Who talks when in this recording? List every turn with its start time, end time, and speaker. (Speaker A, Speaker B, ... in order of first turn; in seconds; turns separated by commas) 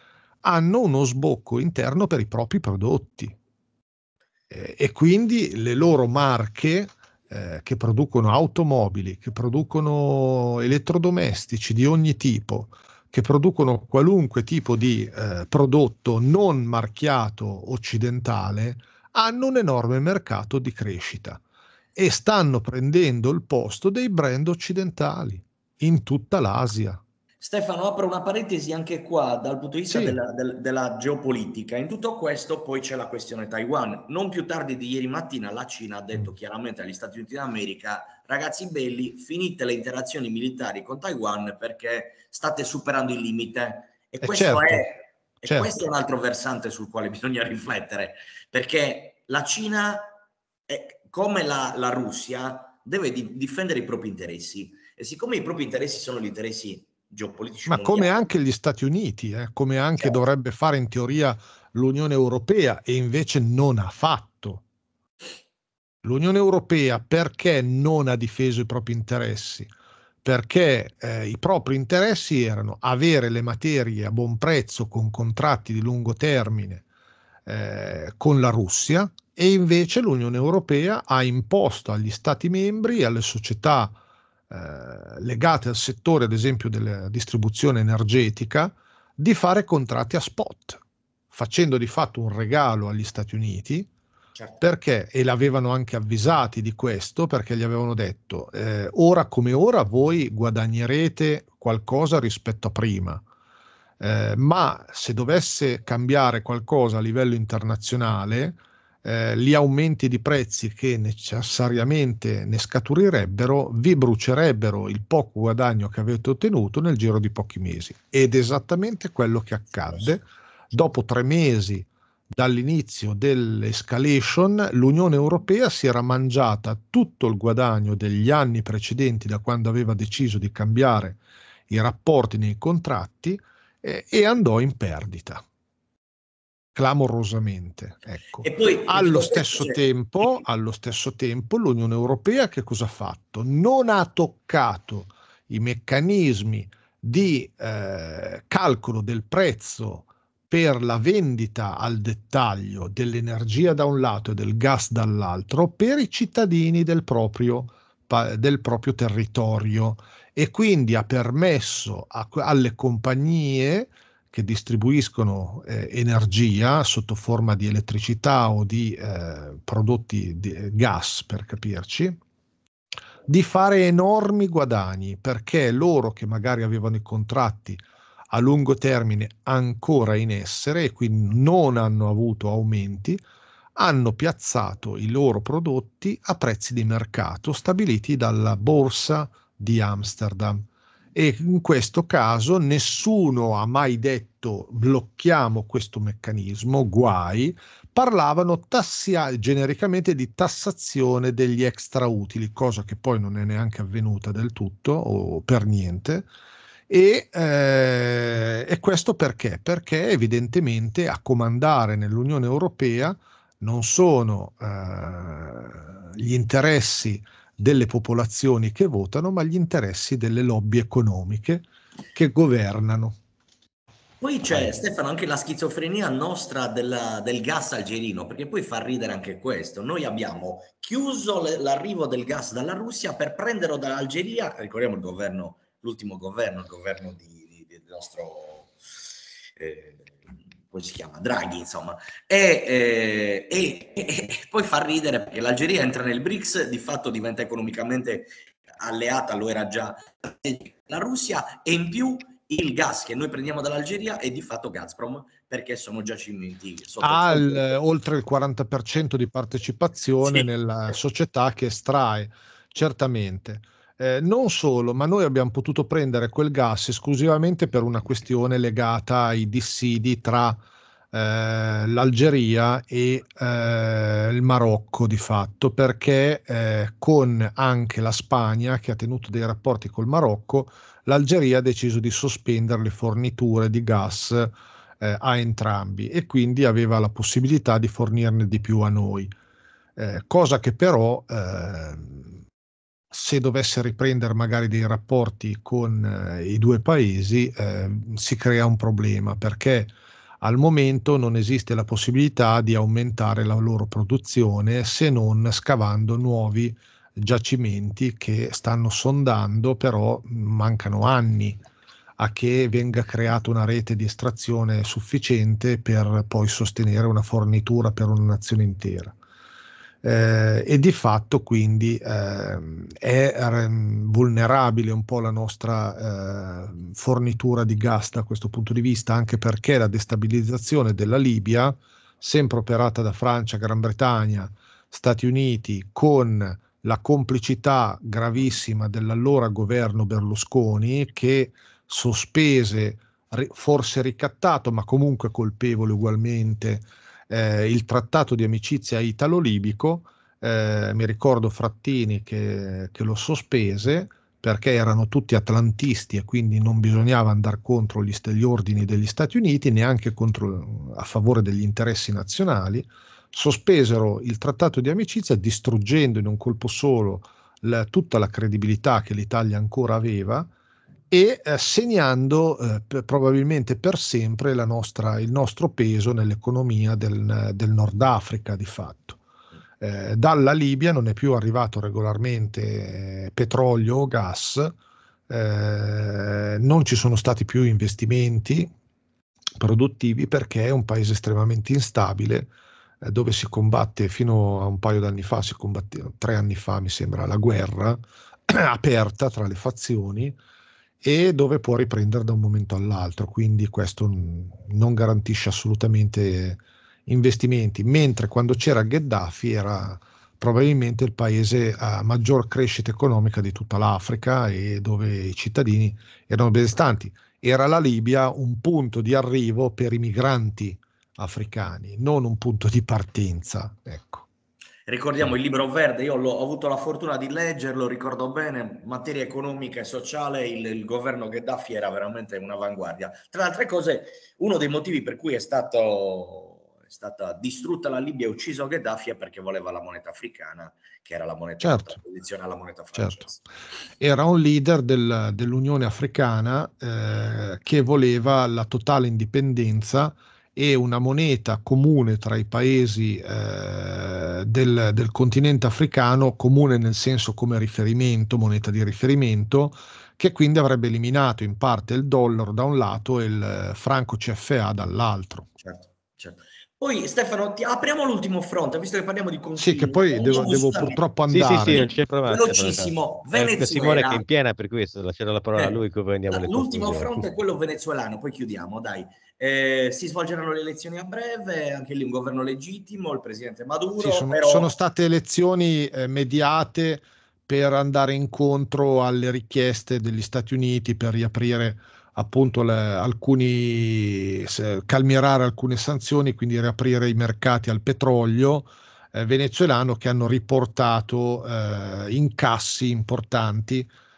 Speaker A: 0.4-3.3, Speaker A: 4.5-21.4, Speaker A: 21.9-27.0, Speaker B: 27.4-50.1, Speaker A: 29.9-30.2, Speaker A: 44.2-44.8, Speaker A: 45.4-45.8, Speaker B: 50.7-58.1, Speaker A: 57.7-64.6, Speaker A: 66.0-69.7, Speaker A: 70.2-76.8, Speaker A: 77.5-84.0, Speaker A: 84.5-93.9, Speaker B: 94.3-94.6, Speaker A: 94.6-103.2, Speaker A: 104.0-135.4, Speaker A: 136.7-172.2, Speaker B: 138.4-139.8, Speaker A: 173.2-183.2, Speaker A: 183.7-190.6, Speaker A: 191.1-206.3, Speaker A: 206.9-223.2, Speaker B: 224.2-238.7, Speaker B: 239.6-240.1, Speaker B: 240.7-257.7, Speaker A: 257.0-270.6, Speaker A: 271.1-289.3, Speaker A: 290.0-292.4, Speaker A: 293.1-311.6, Speaker A: 312.2-319.1, Speaker A: 320.0-370.5, Speaker A: 371.1-379.2, Speaker A: 379.8-384.7, Speaker A: 385.3-388.7, Speaker A: 389.6-392.5, Speaker A: 393.0-400.3, Speaker A: 401.0-424.2, Speaker B: 424.9-443.4, Speaker A: 441.6-442.0, Speaker A: 442.9-443.2, Speaker A: 444.0-465.5, Speaker B: 465.6-474.2, Speaker A: 469.6-471.8, Speaker C: 471.3-477.2, Speaker B: 476.3-484.7, Speaker A: 484.0-503.9